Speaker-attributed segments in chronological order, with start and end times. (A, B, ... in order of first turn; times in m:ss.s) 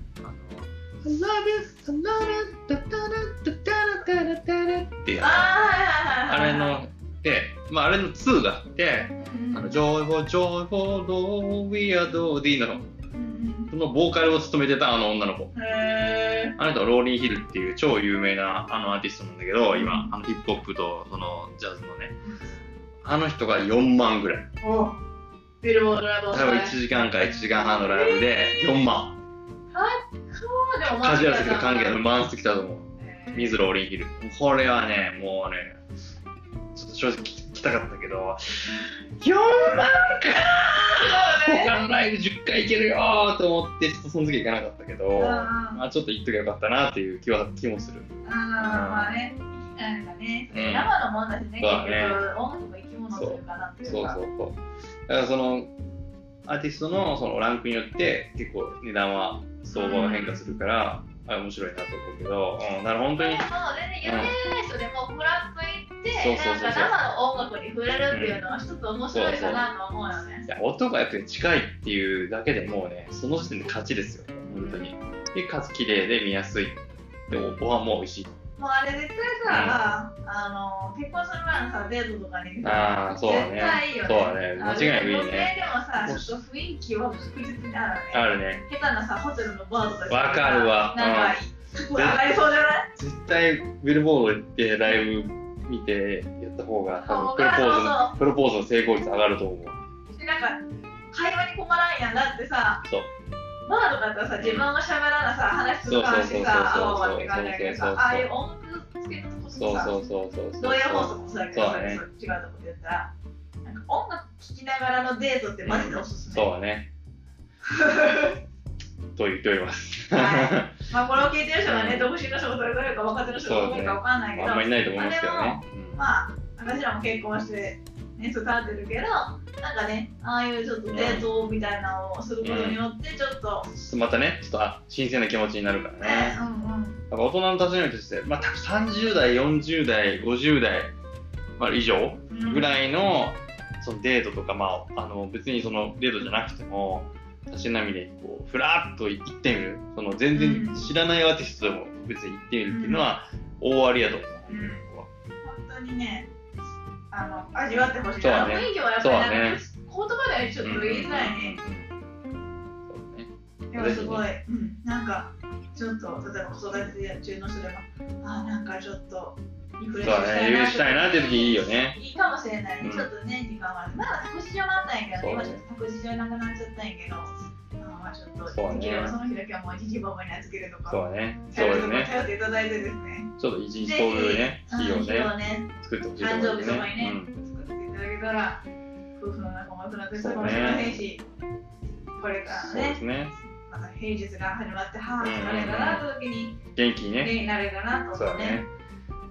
0:00.2-0:05.6 A
0:05.2-0:06.8 B
0:06.3-0:12.9 A
0:09.2-0:09.8 B
0:13.1-0:13.7 B
0:13.7-0:15.5 A
0:15.5-0:16.6 B
0:16.6-0:22.2 A
0:19.8-0:20.1 B
0:22.2-0:22.6 B
0:23.0-0:24.5 A
0:24.6-0:25.0 B
0:25.6-0:26.8 B
0:26.3-0:29.2 A
0:27.4-0:28.6 B
0:29.7-0:32.0 B
0:30.9-0:35.8 A
0:33.0-0:33.6 B
0:36.8-0:49.2 A
0:40.8-0:41.8 B
0:45.2-0:45.8 B
0:48.2-0:54.2 B
0:50.5-0:50.9 A
0:51.6-0:52.2 A
0:53.1-0:55.7 A
0:56.5-1:03.4 A
0:59.7-1:00.6 B
1:03.2-1:10.5 B
1:04.0-1:04.3 A
1:06.1-1:07.0 A
1:08.1-1:08.4 A
1:09.1-1:09.6 A
1:10.5-1:18.4 A
1:14.5-1:14.9 B
1:18.6-1:32.9 B
1:19.5-1:19.8 A
1:22.6-1:26.4 A
1:28.1-1:28.6 A
1:30.0-1:31.4 A
1:31.9-1:32.3 A
1:33.0-1:39.8 A
1:37.0-1:38.2 B
1:40.1-1:42.8 B
1:43.7-1:50.0 B
1:44.4-1:44.7 A
1:45.8-1:48.3 A
1:49.6-1:52.0 A
1:50.6-1:53.1 B
1:53.6-1:56.5 B
1:55.6-1:56.9 A
1:57.7-1:58.4 B
1:59.2-2:00.7 A
2:00.1-2:13.7 B
2:01.6-2:02.1 A
2:03.3-2:06.0 A
2:10.9-2:11.3 A
2:12.4-2:12.8 A
2:13.7-2:16.4 A
2:16.0-2:17.0 B
2:17.1-2:21.0 A
2:21.6-2:35.1 A
2:22.3-2:22.7 B
2:30.3-2:30.9 B
2:32.7-2:33.1 B
2:34.5-2:34.8 B
2:35.4-2:36.3 B
2:37.1-2:41.6 B
2:38.2-2:39.6 A
2:40.6-2:41.9 A
2:42.9-2:44.2 A
2:43.7-3:03.3 B
2:50.0-2:52.0 A
2:52.8-2:53.1 A
2:55.2-2:55.6 A
2:58.5-2:59.2 A
3:00.9-3:02.1 A
3:03.4-3:07.3 A
3:03.8-3:08.6 B
3:09.2-3:11.2 B
3:10.2-3:11.0 A
3:12.2-3:13.0 B
3:12.5-3:13.4 A
3:13.7-3:16.6 B
3:15.2-3:16.0 A
3:16.8-3:17.3 A
3:17.2-3:18.6 B
3:18.1-3:18.7 A